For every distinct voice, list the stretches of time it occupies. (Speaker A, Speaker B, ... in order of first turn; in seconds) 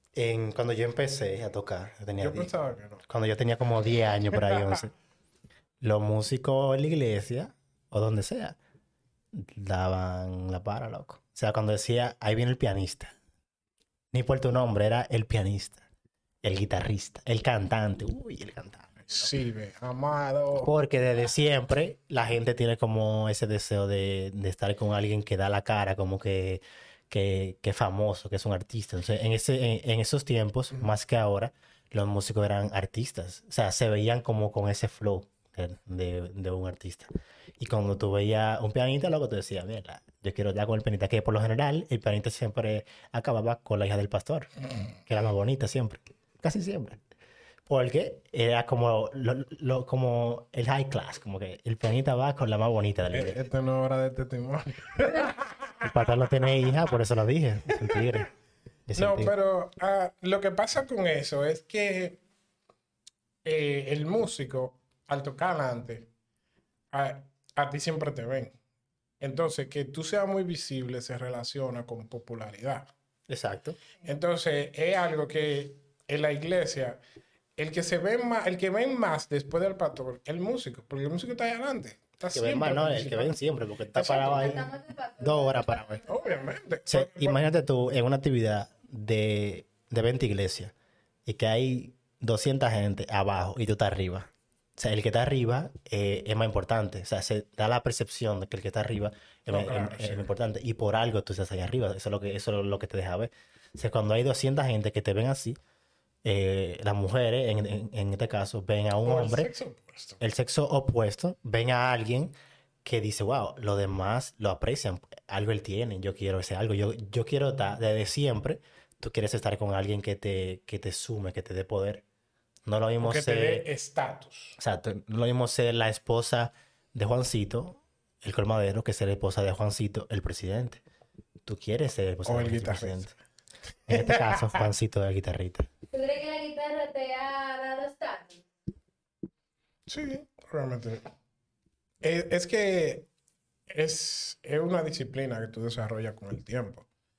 Speaker A: 0.1-2.5, 3.0-4.9, 5.8-8.6, 9.3-13.1, 14.1-15.9, 16.4-19.3, 20.6-47.0, 47.7-53.4, 55.8-58.3, 58.9-59.3, 73.3-73.8, 82.3-86.0, 86.9-90.7, 91.3-105.6, 106.2-109.5, 110.2-122.0, 122.7-123.7, 124.6-130.8, 131.5-133.1, 133.9-135.7
Speaker B: 2.2-3.0, 4.5-4.8, 19.1-20.7, 53.1-55.9, 57.8-58.1, 59.0-62.2, 63.4-66.1, 66.9-68.6, 69.2-72.9, 74.0-77.0, 77.6-83.4, 84.0-84.5, 86.1-87.4, 99.5-100.3, 109.0-110.2, 123.0-124.6, 132.3-133.1, 133.9-134.7, 139.9-141.1, 142.0-143.1, 143.7-146.9
Speaker C: 84.0-86.1, 135.9-138.4